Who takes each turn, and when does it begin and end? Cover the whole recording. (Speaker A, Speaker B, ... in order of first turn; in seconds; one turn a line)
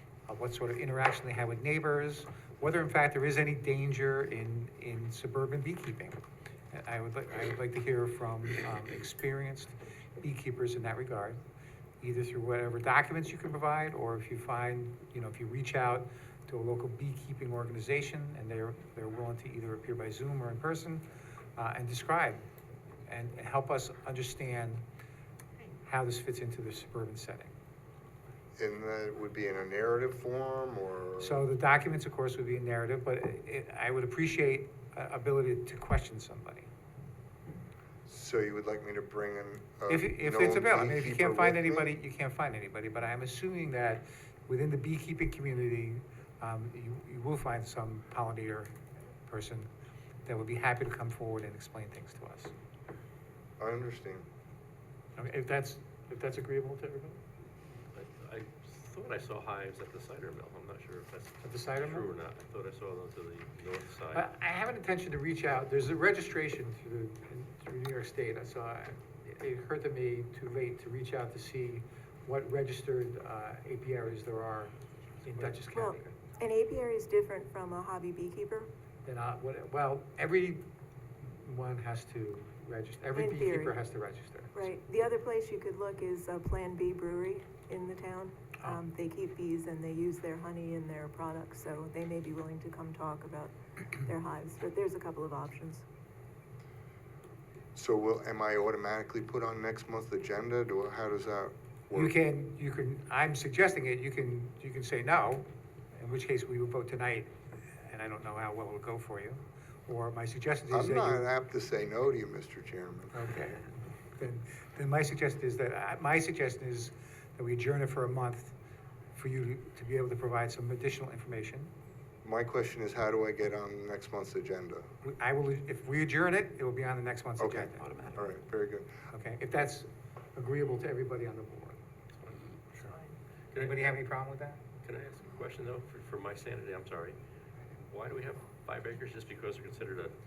Speaker A: 0.3-6.2
Speaker A: 6.7-11.4
Speaker A: 12.0-22.4
Speaker A: 23.1-24.8
Speaker A: 25.8-27.5
Speaker B: 28.6-31.4
Speaker A: 31.2-36.7
Speaker B: 38.1-41.9
Speaker A: 39.9-48.7
Speaker A: 49.3-49.7
Speaker A: 50.2-52.5
Speaker B: 53.6-54.2
Speaker A: 55.2-57.2
Speaker C: 57.9-64.3
Speaker A: 61.4-62.1
Speaker A: 64.1-76.2
Speaker D: 75.7-78.7
Speaker A: 79.0-80.6
Speaker A: 81.2-84.7
Speaker D: 83.1-83.8
Speaker D: 84.5-95.8
Speaker B: 97.7-102.1
Speaker A: 101.9-111.2
Speaker B: 110.7-113.2
Speaker A: 113.1-118.5
Speaker A: 119.1-121.7
Speaker B: 122.2-124.8
Speaker A: 125.0-127.8
Speaker B: 127.4-128.9
Speaker A: 129.1-131.8
Speaker C: 132.1-134.0
Speaker A: 133.5-134.6
Speaker C: 134.8-137.2
Speaker C: 137.7-140.1